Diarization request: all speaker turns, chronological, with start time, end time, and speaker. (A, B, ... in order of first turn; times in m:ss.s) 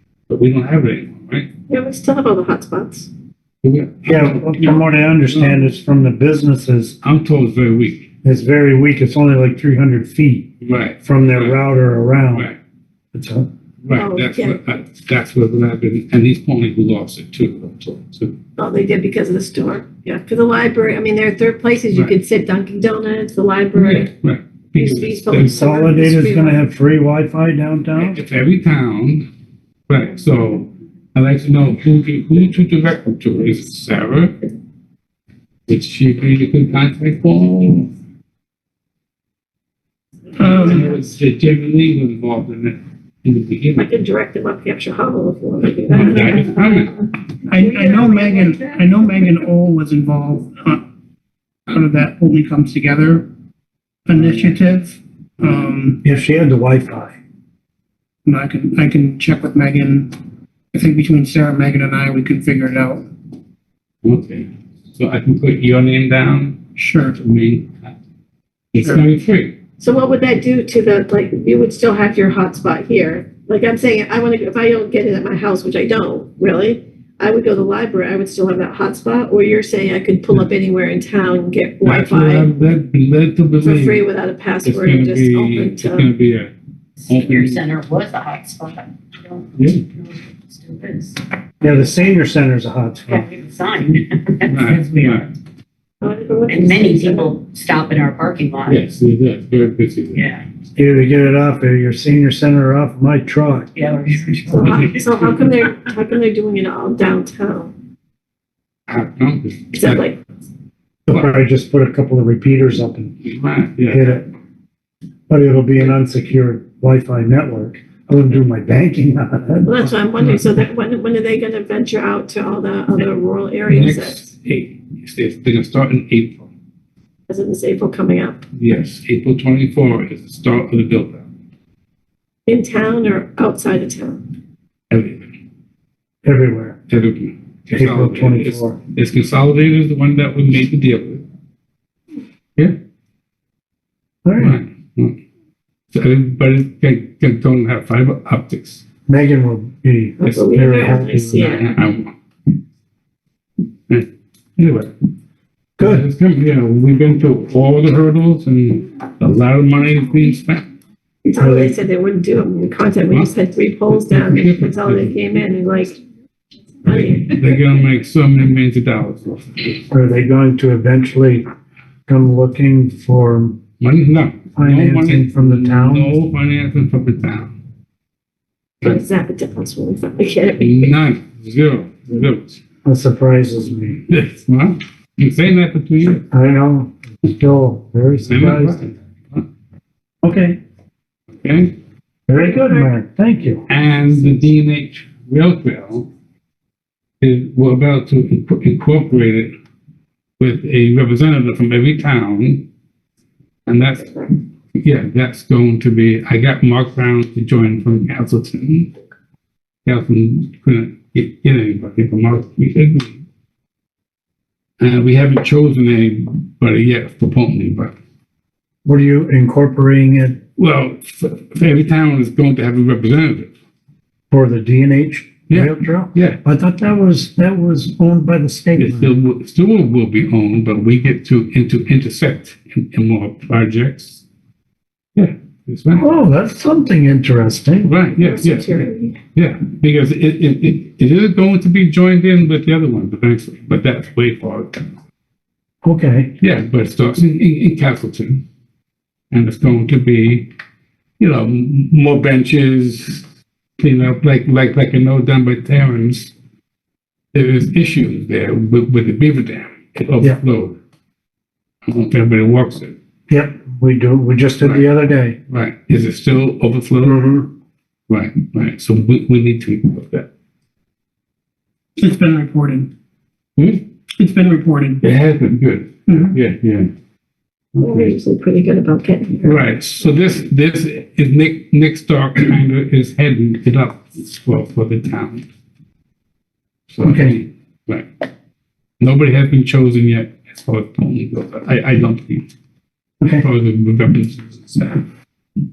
0:00.3-0:01.5 A
0:01.7-0:03.1 B
0:03.6-0:05.6 A
0:04.1-0:07.0 C
0:07.0-0:08.1 A
0:08.2-0:10.5 C
0:10.6-0:11.6 A
0:11.0-0:12.5 C
0:13.1-0:13.5 C
0:13.8-0:18.4 A
0:13.9-0:14.6 B
0:18.6-0:24.1 B
0:23.7-0:25.7 A
0:24.8-0:26.6 B
0:25.4-0:28.2 C
0:28.0-0:29.3 A
0:29.9-0:34.4 A
0:35.7-0:37.9 A
0:40.4-0:40.9 D
0:40.4-0:43.9 A
0:43.8-0:46.8 B
0:45.9-0:47.0 A
0:46.0-0:46.3 D
0:47.4-0:50.8 D
0:47.7-0:48.1 B
0:51.7-0:53.3 D
0:54.1-0:56.0 D
0:56.0-0:57.2 C
0:58.3-1:00.1 D
1:00.7-1:03.0 D
1:04.0-1:06.6 A
1:06.8-1:07.2 D
1:07.1-1:07.7 A
1:08.7-1:09.6 A
1:08.8-1:09.0 D
1:09.8-1:22.5 B
1:21.8-1:24.0 A
1:23.6-1:26.1 B
1:24.6-1:26.5 A
1:27.0-1:31.2 E
1:27.1-1:27.6 A
1:29.6-1:29.8 A
1:31.6-1:33.2 C
1:33.1-1:35.3 E
1:34.5-1:35.3 A
1:36.0-1:37.4 B
1:36.5-1:38.8 E
1:38.6-1:40.3 A
1:40.2-1:40.4 E
1:40.8-1:43.7 C
1:43.8-1:45.5 E
1:44.5-1:47.7 B
1:48.9-1:50.1 A
1:49.7-1:50.2 B
1:51.1-1:53.2 C
1:53.2-1:54.1 A
1:53.9-1:54.3 C
1:55.3-1:59.8 C
1:59.6-2:04.3 B
2:00.2-2:00.5 A
2:03.7-2:06.5 A
2:07.3-2:08.4 B
2:08.5-2:11.3 A
2:12.5-2:14.2 B
2:14.9-2:15.3 A
2:16.2-2:16.8 C
2:16.9-2:21.2 A
2:17.7-2:18.8 C
2:24.2-2:24.6 C
2:24.4-2:25.2 A
2:25.9-2:28.8 A
2:29.1-2:31.6 C
2:30.2-2:31.7 B
2:31.0-2:32.1 A
2:33.9-2:34.9 A
2:35.8-2:36.1 C
2:35.8-2:40.6 A
2:41.2-2:46.0 B
2:41.4-2:41.8 C
2:43.9-2:45.2 A
2:46.8-2:47.5 B
2:46.9-2:49.8 A
2:49.9-2:51.5 C
2:52.1-2:53.6 C
2:53.8-2:57.5 A
2:54.6-2:56.2 C
2:58.8-3:00.9 B
3:00.6-3:02.6 A
3:02.8-3:04.0 C
3:04.1-3:06.2 A
3:06.3-3:08.8 C
3:08.3-3:09.4 A
3:10.2-3:10.6 C
3:11.4-3:11.8 A
3:12.3-3:13.7 C
3:12.5-3:12.9 B
3:13.7-3:16.1 A
3:17.2-3:19.5 A
3:20.4-3:22.6 A
3:23.7-3:28.9 A
3:29.9-3:33.2 A
3:34.8-3:37.9 A
3:38.8-3:40.4 C
3:40.6-3:43.5 A
3:44.3-3:49.1 C
3:45.5-3:46.4 A
3:48.8-3:54.2 A
3:55.2-3:56.0 A
3:56.0-3:57.9 C
3:57.8-4:04.9 A
3:58.2-3:59.2 B
4:05.8-4:06.3 C
4:06.4-4:08.4 A
4:09.3-4:10.5 A
4:11.2-4:13.2 A
4:13.8-4:16.3 A
4:17.3-4:20.8 A
4:21.9-4:23.0 A
4:23.3-4:25.4 C
4:24.6-4:24.9 A
4:25.5-4:27.2 A
4:27.0-4:27.5 C
4:28.1-4:30.3 A
4:32.0-4:32.9 D
4:33.6-4:33.8 A
4:34.2-4:35.0 D
4:35.0-4:36.9 A
4:36.1-4:36.4 D
4:37.8-4:38.1 A
4:37.8-4:39.6 B
4:39.4-4:45.5 A
4:46.9-4:48.1 A
4:47.0-4:47.4 C
4:49.0-4:52.4 A
4:53.3-4:55.0 A